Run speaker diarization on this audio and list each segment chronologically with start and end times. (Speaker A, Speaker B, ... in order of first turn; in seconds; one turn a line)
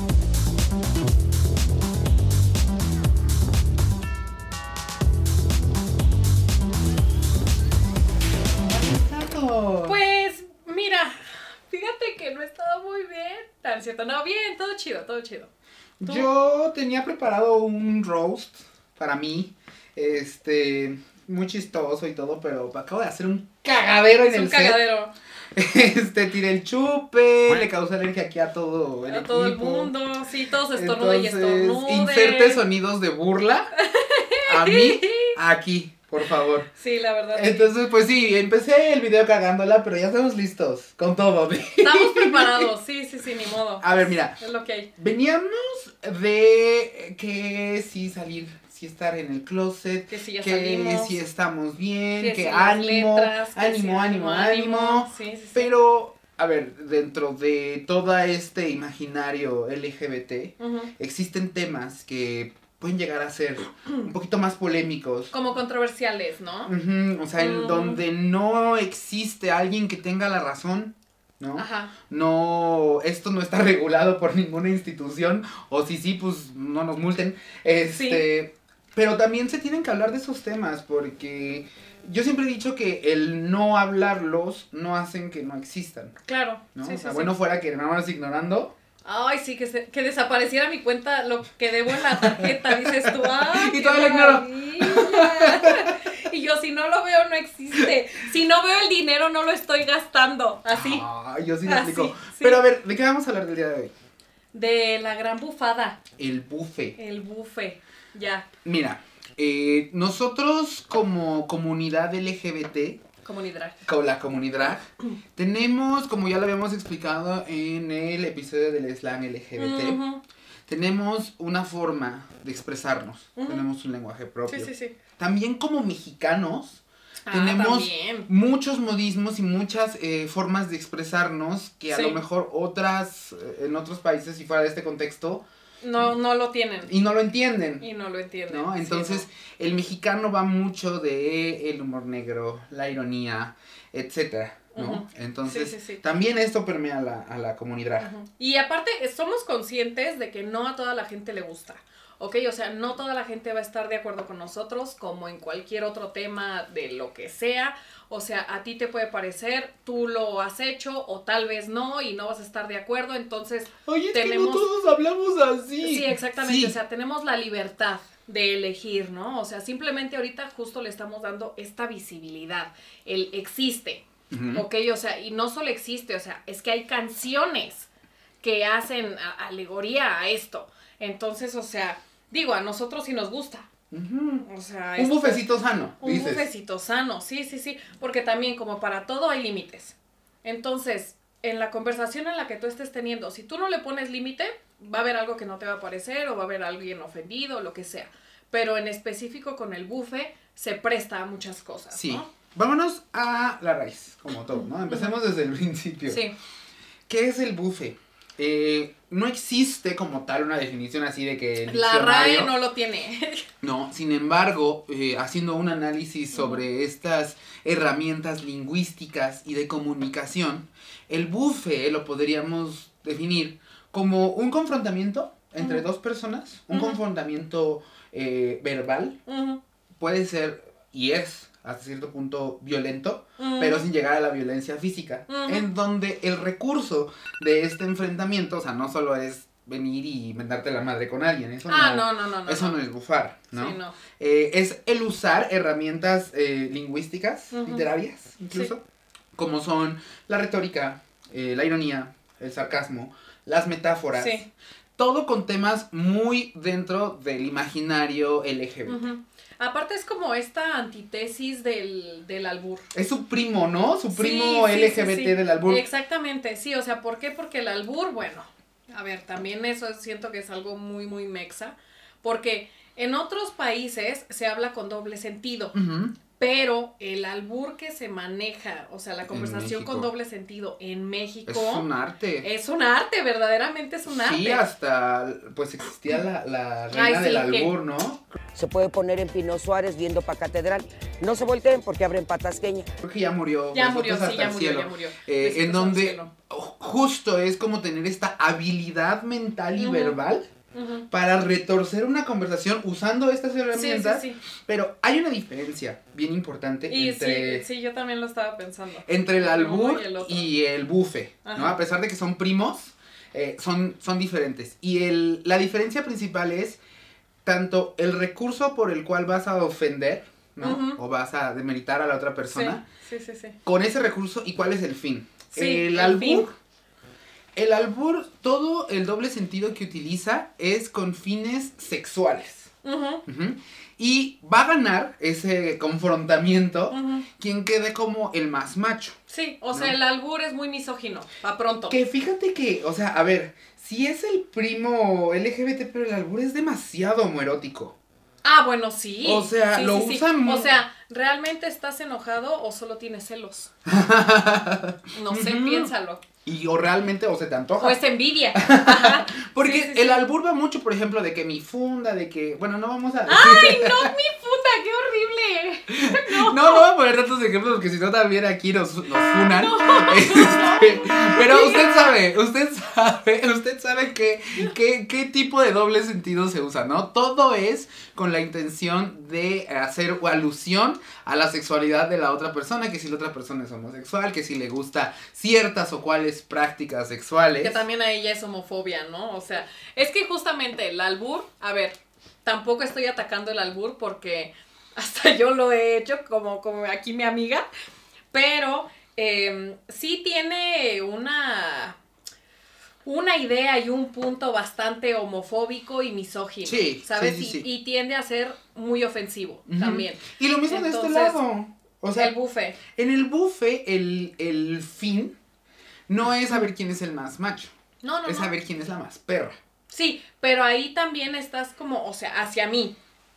Speaker A: 8.8-10.0
Speaker B: 9.8-15.5
Speaker A: 16.0-24.8
Speaker B: 24.2-25.1
Speaker A: 25.5-29.9
Speaker B: 29.1-32.6
Speaker A: 30.7-33.7
Speaker B: 33.7-35.3
Speaker A: 34.4-36.7
Speaker B: 36.7-37.7
Speaker A: 37.3-42.7
Speaker B: 41.8-44.9
Speaker A: 43.8-44.4
Speaker A: 45.0-65.3
Speaker B: 50.1-51.2
Speaker B: 52.2-55.7
Speaker B: 60.6-60.9
Speaker B: 65.3-66.7
Speaker A: 66.7-86.2
Speaker B: 67.3-68.0
Speaker B: 71.6-71.9
Speaker B: 77.9-78.2
Speaker B: 86.2-87.3
Speaker A: 86.7-88.7
Speaker B: 89.0-101.0
Speaker A: 91.9-96.0
Speaker A: 100.7-103.9
Speaker B: 101.6-102.6
Speaker B: 104.5-106.0
Speaker A: 106.2-107.0
Speaker B: 107.0-108.5
Speaker A: 108.6-113.0
Speaker B: 113.2-113.8
Speaker A: 113.8-120.0
Speaker B: 119.6-120.2
Speaker A: 120.7-135.4
Speaker B: 123.4-123.6
Speaker B: 124.5-125.0
Speaker B: 127.3-128.3
Speaker B: 131.9-132.2
Speaker B: 135.8-136.9
Speaker A: 136.8-137.8
Speaker B: 137.8-139.2
Speaker A: 138.5-148.1
Speaker B: 144.7-146.0
Speaker B: 148.0-164.7
Speaker A: 163.8-166.8
Speaker B: 165.8-177.9
Speaker A: 174.3-174.6
Speaker B: 178.4-183.7
Speaker A: 183.9-184.4
Speaker B: 184.4-185.4
Speaker A: 185.0-186.5
Speaker B: 186.0-202.2
Speaker A: 201.9-206.2
Speaker B: 204.9-205.1
Speaker B: 206.1-206.3
Speaker A: 207.1-212.5
Speaker B: 211.7-213.4
Speaker A: 213.6-229.2
Speaker B: 216.3-216.6
Speaker B: 226.7-227.0
Speaker B: 229.3-229.6
Speaker A: 230.0-248.8
Speaker B: 233.4-233.8
Speaker B: 235.3-235.7
Speaker B: 241.7-242.8
Speaker B: 243.5-244.0
Speaker B: 247.5-247.8
Speaker A: 249.3-259.0
Speaker B: 254.1-254.4
Speaker B: 258.9-262.9
Speaker A: 262.9-265.8
Speaker B: 264.1-275.7
Speaker A: 275.7-276.1
Speaker B: 276.3-281.9
Speaker A: 279.3-280.1
Speaker A: 281.4-282.5
Speaker B: 282.4-284.6
Speaker A: 284.1-288.2
Speaker B: 286.9-287.7
Speaker C: 288.5-292.9
Speaker A: 293.0-300.4
Speaker B: 293.7-296.3
Speaker B: 299.8-300.2
Speaker B: 300.7-301.1
Speaker A: 301.1-307.6
Speaker B: 303.7-304.4
Speaker B: 306.9-310.5
Speaker A: 309.1-316.8
Speaker B: 311.4-311.8
Speaker A: 317.4-322.8
Speaker B: 320.6-321.0
Speaker B: 322.5-323.6
Speaker A: 323.6-326.5
Speaker B: 325.5-326.5
Speaker A: 327.6-332.7
Speaker B: 332.8-333.2
Speaker A: 333.2-339.2
Speaker B: 336.9-337.2
Speaker B: 339.3-342.0
Speaker A: 341.9-347.9
Speaker B: 348.4-353.7
Speaker A: 349.2-350.7
Speaker A: 353.9-355.9
Speaker B: 355.1-356.2
Speaker A: 356.4-358.0
Speaker B: 357.8-360.2
Speaker A: 358.5-364.1
Speaker B: 363.2-366.9
Speaker A: 365.9-387.8
Speaker B: 369.3-372.2
Speaker B: 387.6-397.6
Speaker B: 398.3-402.0
Speaker B: 403.0-411.4
Speaker A: 406.6-407.6
Speaker A: 409.7-412.3
Speaker B: 412.2-412.8
Speaker A: 412.9-415.3
Speaker A: 416.1-417.7
Speaker B: 418.0-418.5
Speaker A: 418.2-419.6
Speaker B: 419.9-423.0